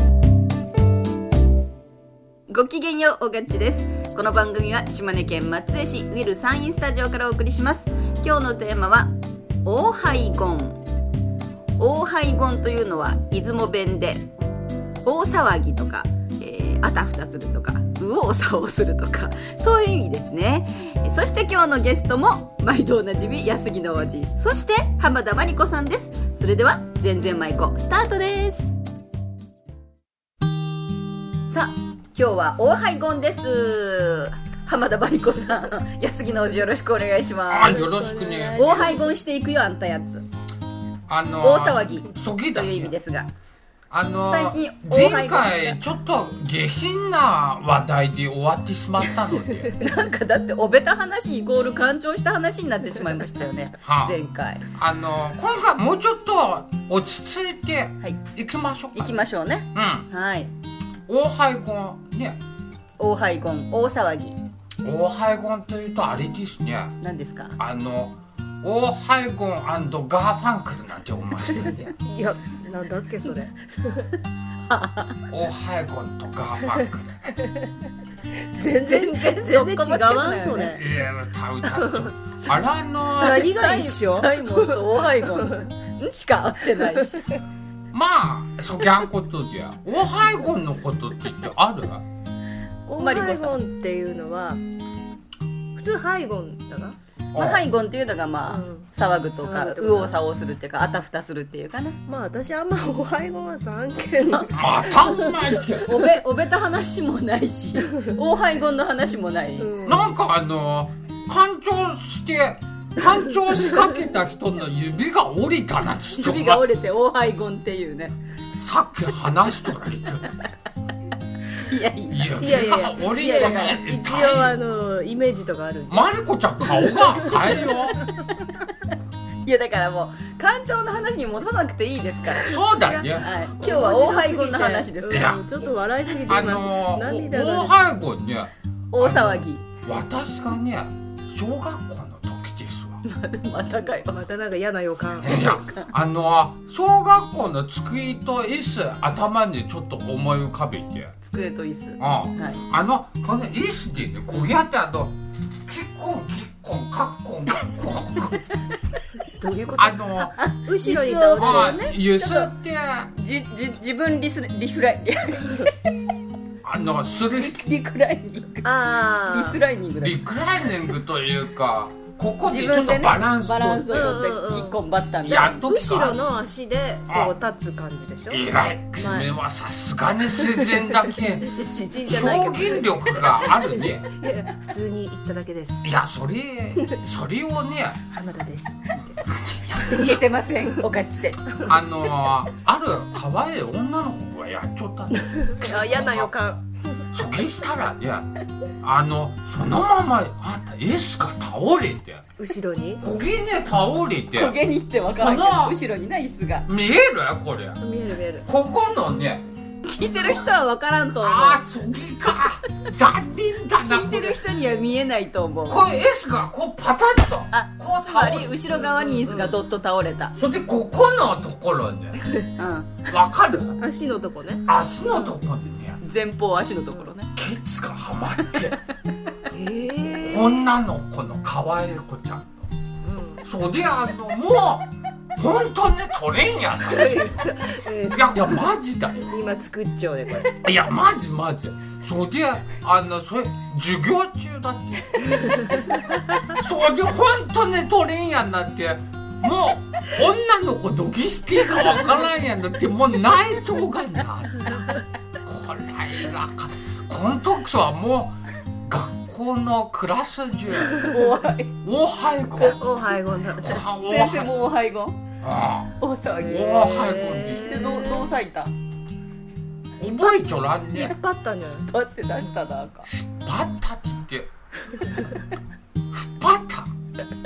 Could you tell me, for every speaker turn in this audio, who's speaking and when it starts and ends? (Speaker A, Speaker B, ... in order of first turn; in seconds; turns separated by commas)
Speaker A: 2.5-9.1, Speaker A: 9.6-10.8, Speaker A: 11.8-14.3, Speaker A: 15.0-28.7, Speaker A: 31.5-37.8, Speaker B: 37.5-38.9, Speaker C: 37.7-39.2, Speaker A: 38.6-40.2, Speaker B: 41.1-43.0, Speaker A: 41.4-43.3, Speaker B: 43.9-49.8, Speaker A: 44.2-45.8, Speaker A: 49.8-54.7, Speaker B: 53.8-54.2, Speaker B: 54.7-59.2, Speaker A: 58.9-60.5, Speaker B: 59.7-60.1, Speaker B: 61.1-62.4, Speaker A: 63.0-64.4, Speaker B: 64.8-67.0, Speaker A: 67.0-67.6, Speaker B: 67.6-72.0, Speaker C: 72.0-74.1, Speaker A: 74.7-75.2, Speaker B: 75.3-77.4, Speaker C: 78.6-80.8, Speaker A: 78.6-80.8, Speaker B: 80.6-83.5, Speaker C: 81.7-82.1, Speaker C: 83.2-84.8, Speaker A: 83.2-87.4, Speaker B: 87.9-92.0, Speaker C: 92.9-94.6, Speaker A: 93.0-93.6, Speaker C: 95.8-97.0, Speaker A: 97.3-102.0, Speaker B: 97.3-97.7, Speaker C: 98.5-100.2, Speaker C: 102.1-105.7, Speaker B: 104.5-106.0, Speaker A: 105.8-109.8, Speaker C: 109.6-110.1, Speaker B: 109.8-116.7, Speaker A: 116.2-118.2, Speaker B: 118.6-120.4, Speaker A: 121.5-123.8, Speaker B: 122.1-124.6, Speaker C: 122.4-126.1, Speaker B: 125.9-128.1, Speaker C: 127.0-127.7, Speaker A: 129.4-135.4, Speaker B: 132.4-133.3, Speaker C: 132.8-137.8, Speaker B: 135.1-135.4, Speaker B: 136.3-143.0, Speaker A: 138.9-139.6, Speaker A: 143.1-144.2, Speaker C: 144.1-145.4, Speaker B: 145.2-151.1, Speaker A: 145.2-145.9, Speaker A: 151.2-152.6, Speaker B: 152.0-155.1, Speaker B: 155.7-158.5, Speaker C: 159.4-161.8, Speaker B: 159.7-160.3, Speaker A: 160.4-162.5, Speaker B: 161.4-163.1, Speaker A: 163.2-165.7, Speaker B: 166.6-167.7, Speaker A: 167.4-170.2, Speaker C: 168.6-169.6, Speaker B: 170.0-174.2, Speaker A: 172.4-175.6, Speaker C: 173.9-174.8, Speaker B: 175.2-176.3, Speaker C: 175.3-178.4, Speaker B: 177.1-177.3, Speaker B: 178.3-184.1, Speaker C: 179.0-179.3, Speaker C: 180.4-181.0, Speaker A: 181.4-182.8, Speaker C: 182.0-185.8, Speaker B: 185.8-188.0, Speaker C: 188.1-190.1, Speaker B: 189.3-189.6, Speaker A: 189.7-191.5, Speaker B: 191.6-196.3, Speaker C: 195.4-196.6, Speaker B: 197.1-202.3, Speaker C: 202.4-203.0, Speaker B: 203.0-204.6, Speaker A: 204.3-206.7, Speaker B: 205.2-205.8, Speaker B: 206.7-207.8, Speaker C: 207.8-208.5, Speaker B: 208.4-209.4, Speaker A: 209.8-211.6, Speaker B: 211.2-214.4, Speaker A: 213.7-215.9, Speaker B: 215.7-218.7, Speaker A: 217.5-220.3, Speaker C: 218.8-219.6, Speaker B: 220.4-222.2, Speaker A: 222.6-223.1, Speaker B: 223.1-223.8, Speaker C: 223.8-225.3, Speaker B: 224.7-226.0, Speaker A: 226.0-227.3, Speaker B: 227.3-228.8, Speaker C: 229.5-230.6, Speaker B: 230.2-232.5, Speaker C: 233.1-233.4, Speaker B: 233.4-237.4, Speaker C: 236.9-238.6, Speaker B: 238.1-239.3, Speaker C: 239.3-240.6, Speaker B: 240.5-245.8, Speaker B: 246.4-254.9, Speaker B: 255.4-258.3, Speaker B: 258.9-261.1, Speaker A: 261.0-261.7, Speaker B: 261.8-262.8, Speaker C: 262.8-263.8, Speaker B: 263.6-264.6, Speaker A: 263.7-265.2, Speaker B: 265.4-267.9, Speaker A: 266.0-267.0, Speaker C: 266.8-268.4, Speaker A: 267.6-268.7, Speaker B: 270.0-271.2, Speaker C: 270.9-271.9, Speaker A: 271.8-273.1, Speaker B: 273.1-274.5, Speaker B: 276.1-276.9